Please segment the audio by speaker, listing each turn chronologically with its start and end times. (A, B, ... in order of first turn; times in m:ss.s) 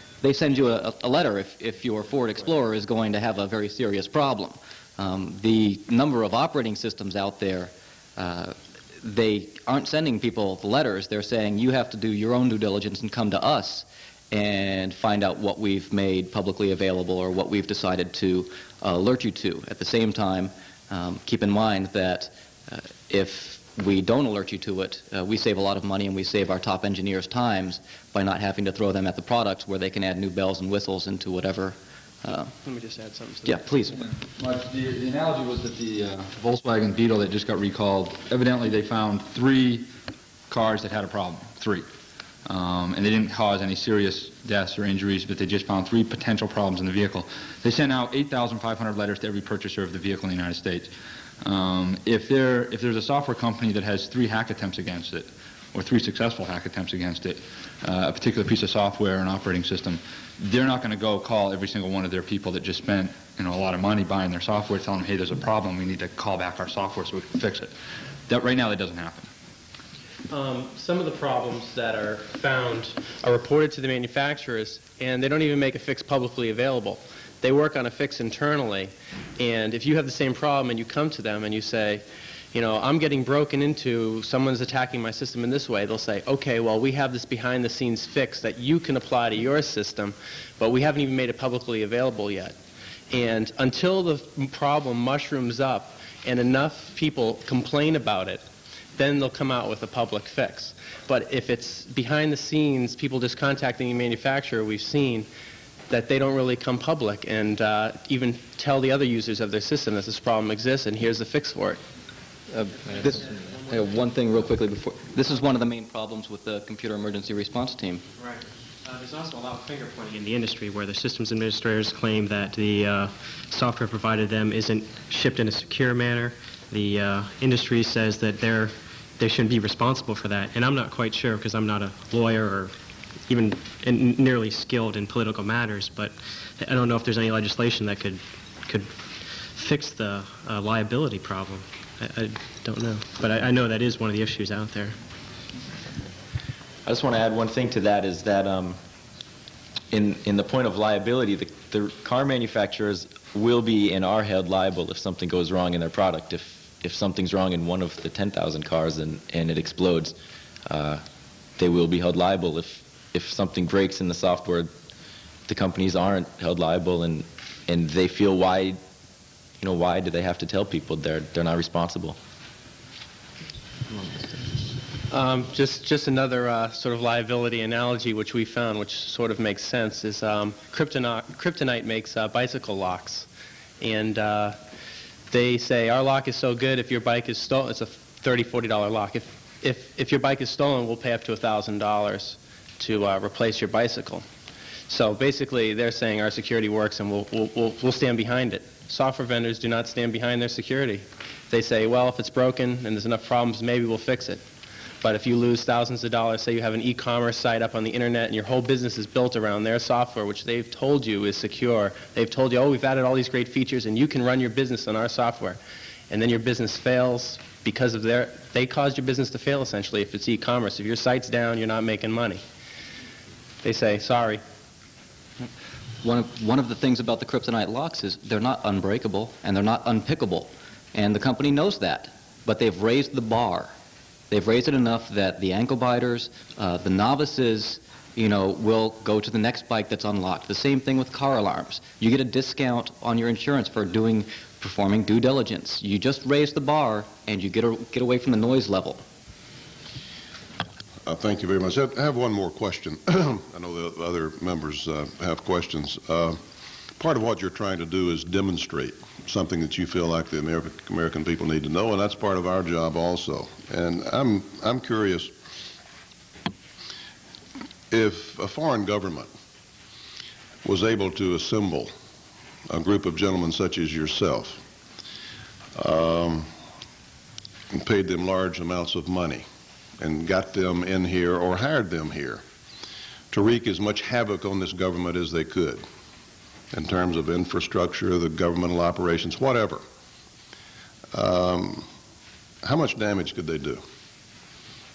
0:00.2-0:32.5 A
0:32.6-0:33.6 B
0:33.4-0:34.0 A
0:34.0-0:39.9 C
0:40.5-0:41.9 C
0:42.5-1:07.8 C
1:08.3-1:09.3 C
1:10.3-1:32.6 B
1:33.1-1:38.4 B
1:39.0-1:45.3 B
1:45.9-1:51.8 B
1:52.5-1:58.0 A
1:58.2-2:12.7 D
2:13.3-2:19.0 D
2:19.5-2:25.0 D
2:26.8-2:28.8 E
2:29.9-2:41.0 E
2:41.6-2:44.7 E
2:45.5-2:48.8 E
2:49.6-2:52.2 E
2:55.1-3:03.3 B
3:03.8-3:04.6 B
3:05.3-3:14.3 B
3:14.9-3:24.4 B
3:25.0-3:35.6 B
3:36.1-3:42.4 B
3:43.6-3:44.4 B
3:46.0-3:53.7 A
3:54.3-4:09.0 A
4:11.0-4:16.4 F
4:17.0-4:25.3 F
4:27.9-4:29.3 F
4:30.6-4:31.9 F
4:32.7-4:34.6 F
4:35.8-4:36.5 F
4:37.7-4:39.4 F
4:40.0-4:42.4 F
4:43.3-4:45.8 F
4:46.7-4:49.8 F
4:51.1-4:51.9 F
4:52.6-4:53.8 F